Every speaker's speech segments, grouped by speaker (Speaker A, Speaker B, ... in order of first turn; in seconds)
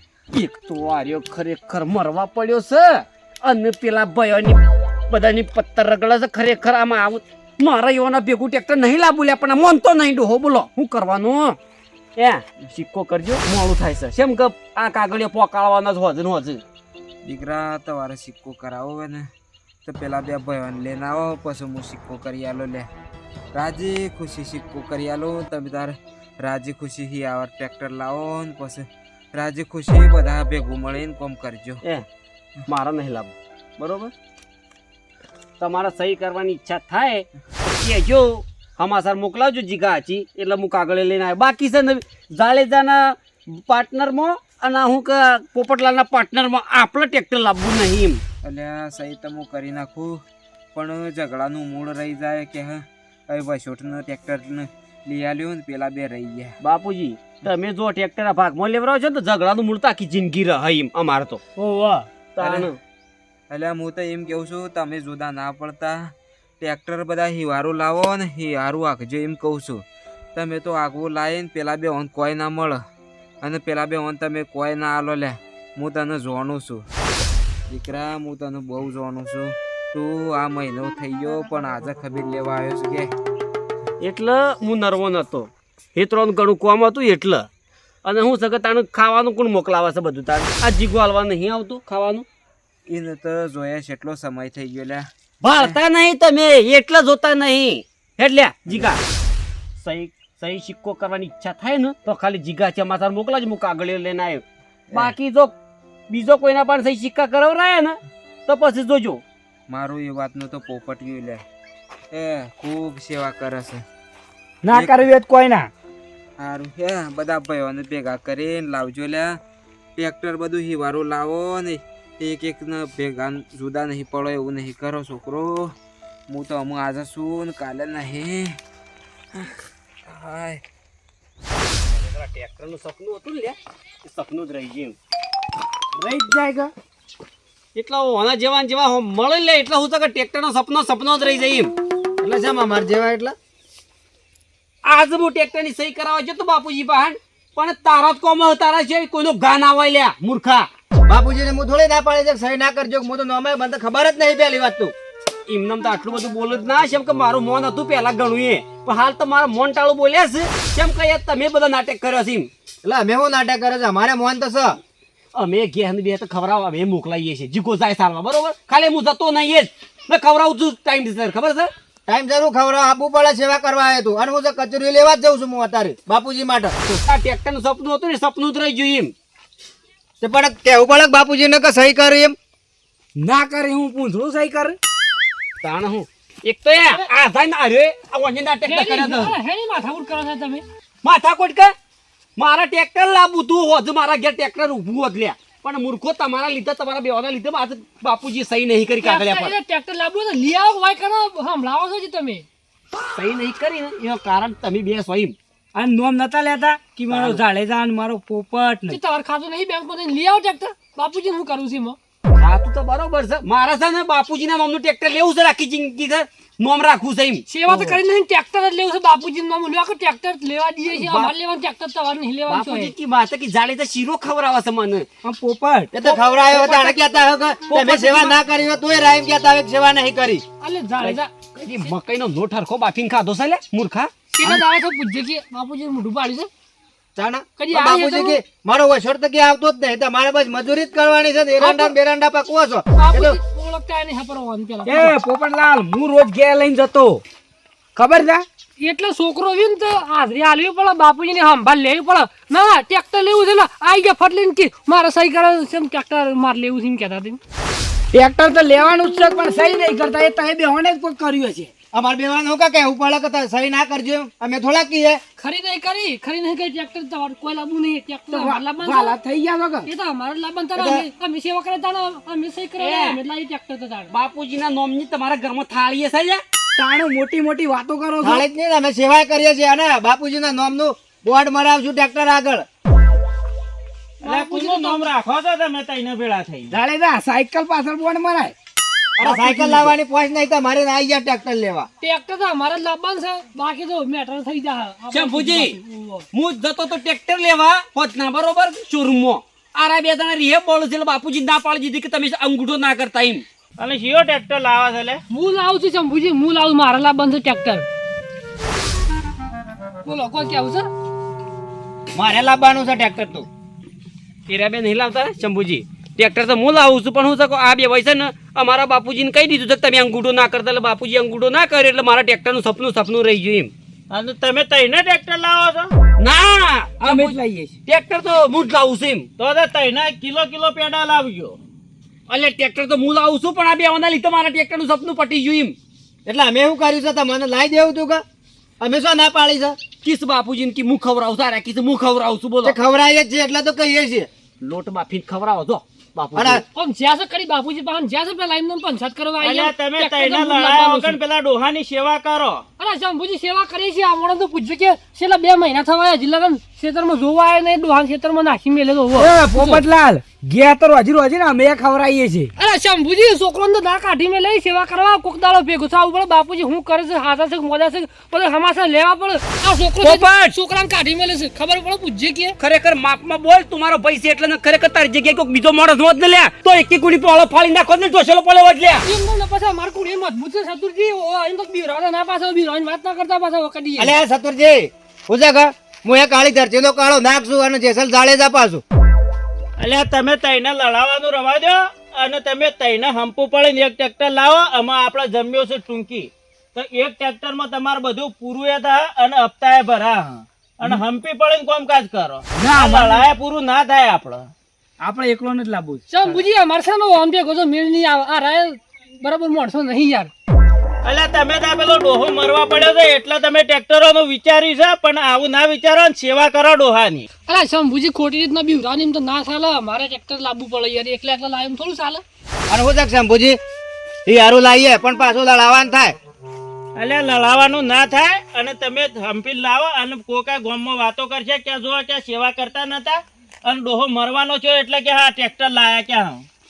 Speaker A: 0.3-11.6, 12.2-16.6, 32.7-34.1, 35.6-48.2, 56.6-62.8, 84.0-87.5, 88.0-92.3, 95.4-99.0, 99.8-105.5, 106.1-109.2, 131.9-135.0, 137.8-141.7, 144.8-150.7, 155.5-162.5, 165.3-171.7, 177.1-179.1, 185.6-189.4, 191.0-191.7, 192.4-199.6, 203.1-205.3, 207.1-207.4, 212.3-218.0, 220.9-221.3, 222.5-225.1, 231.0-234.1, 272.8-273.2, 274.1-276.4, 295.1-295.8, 296.3-303.4, 314.5-323.7, 326.2-329.3, 332.3-335.8, 340.0-342.8, 344.6-346.6, 370.0-370.6, 372.6-379.1
Speaker B: 17.2-19.3, 19.9-22.9, 23.5-31.8, 48.4-50.2, 50.7-56.6, 62.4-62.7, 63.5-69.8, 70.3-72.8, 73.4-76.9, 77.7-83.1, 92.9-95.8, 109.7-111.4, 112.1-113.8, 114.7-115.0, 116.4-119.4, 120.0-125.7, 126.3-128.6, 130.1-130.6
Speaker C: 114.6-115.7, 135.9-136.7, 183.2-184.8, 205.8-209.0, 225.2-226.8, 244.8-247.2, 247.9-248.4, 258.1-261.7, 268.3-269.9, 276.8-278.4, 286.7-288.5, 327.0-327.7, 359.1-362.5, 402.6-403.2, 405.0-406.4
Speaker D: 142.2-143.3, 151.1-154.9, 162.8-164.8, 172.1-177.0, 180.2-182.4, 225.9-230.4, 237.2-243.4, 261.9-265.2, 270.8-271.1, 278.2-282.7, 289.2-291.9, 312.1-313.5, 336.2-338.2, 338.8-339.8, 342.6-344.3, 346.3-346.6, 384.0-388.8, 422.7-423.6, 424.3-426.2
Speaker E: 188.7-190.6, 199.0-202.4, 208.9-212.0, 217.5-222.9, 227.7-228.4, 230.6-231.3, 234.3-236.5, 237.6-238.4, 241.6-241.9, 242.9-245.2, 248.8-257.4, 265.4-269.2, 269.9-274.1, 284.2-285.1, 292.0-296.3, 305.3-307.9, 310.0-310.9, 346.8-351.2, 352.8-359.8, 362.6-372.6, 379.0-384.1, 406.1-410.3, 417.5-422.2
Speaker F: 284.2-286.8, 289.2-289.9, 303.8-305.2, 324.1-325.9, 329.4-331.6, 349.4-352.6, 389.8-404.5, 411.0-417.3, 427.0-436.4